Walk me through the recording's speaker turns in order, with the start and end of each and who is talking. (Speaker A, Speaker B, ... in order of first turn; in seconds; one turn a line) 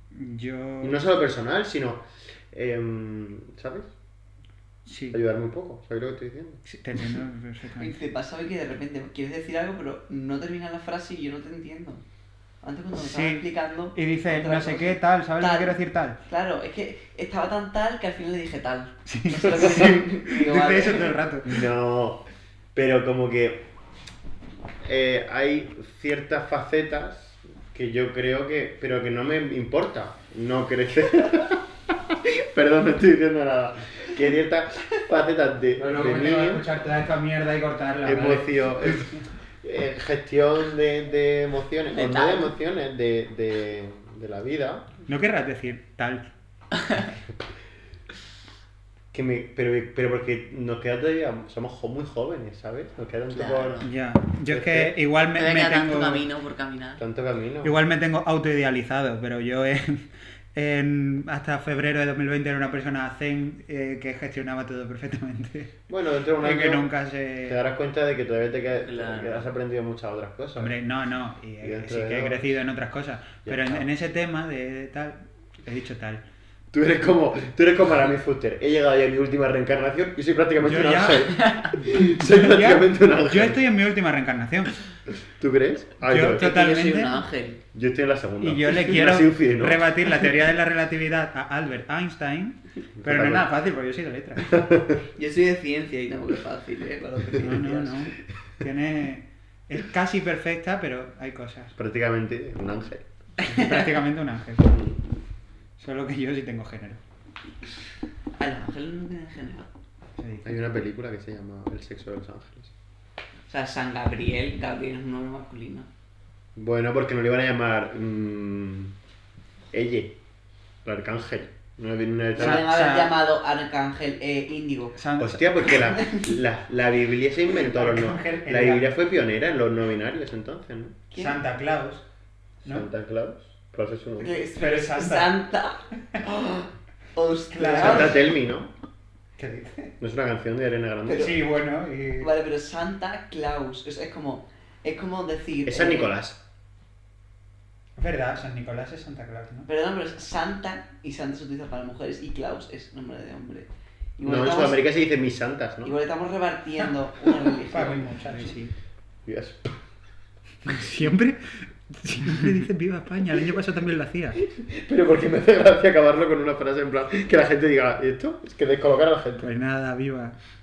Speaker A: 0.1-1.1
Speaker B: 0.8-3.9
Speaker A: 4.9-5.2
Speaker B: 5.1-6.6
Speaker A: 6.7-8.0
Speaker C: 7.8-12.0
Speaker C: 12.6-15.8
Speaker A: 13.0-16.2
Speaker C: 16.3-21.2
Speaker A: 19.1-21.6
Speaker B: 19.5-20.0
Speaker B: 21.5-23.7
Speaker B: 24.8-36.6
Speaker A: 35.8-39.2
Speaker B: 38.0-44.9
Speaker C: 41.9-42.5
Speaker A: 45.1-46.3
Speaker C: 46.7-47.1
Speaker B: 49.1-53.9
Speaker C: 53.3-53.9
Speaker A: 53.8-56.2
Speaker B: 54.5-55.0
Speaker C: 55.3-57.0
Speaker B: 57.0-57.8
Speaker A: 57.6-65.7
Speaker B: 65.9-66.9
Speaker A: 66.4-67.6
Speaker B: 67.5-70.7
Speaker C: 68.8-69.5
Speaker A: 70.6-76.2
Speaker B: 71.6-72.5
Speaker B: 73.5-73.9
Speaker B: 76.7-83.6
Speaker A: 80.6-84.8
Speaker C: 81.4-81.7
Speaker B: 85.1-86.7
Speaker A: 86.0-87.2
Speaker C: 86.3-87.6
Speaker B: 87.7-90.2
Speaker A: 88.4-94.6
Speaker B: 93.0-93.5
Speaker B: 94.5-95.0
Speaker C: 95.2-98.1
Speaker A: 97.4-101.8
Speaker B: 101.8-103.0
Speaker A: 103.4-104.8
Speaker C: 103.4-103.9
Speaker B: 104.7-105.0
Speaker A: 105.8-107.0
Speaker C: 108.4-109.7
Speaker A: 110.2-110.5
Speaker B: 110.4-112.7
Speaker C: 113.5-115.9
Speaker B: 116.6-119.0
Speaker B: 119.7-120.2
Speaker B: 120.8-122.7
Speaker A: 122.4-123.1
Speaker C: 122.4-125.0
Speaker A: 125.0-125.7
Speaker B: 125.2-131.0
Speaker C: 125.7-126.3
Speaker A: 127.6-128.9
Speaker A: 131.1-132.0
Speaker B: 132.6-134.3
Speaker C: 134.2-138.2
Speaker A: 134.6-135.3
Speaker A: 137.5-138.2
Speaker B: 137.7-138.7
Speaker A: 139.4-139.9
Speaker B: 140.0-141.3
Speaker C: 141.1-141.4
Speaker A: 141.1-142.3
Speaker C: 142.2-146.1
Speaker B: 145.7-146.4
Speaker A: 148.0-149.7
Speaker C: 149.7-154.8
Speaker B: 154.2-156.0
Speaker C: 155.8-158.5
Speaker A: 157.7-158.8
Speaker B: 159.3-159.8
Speaker A: 160.7-164.4
Speaker B: 164.5-169.5
Speaker A: 169.4-170.4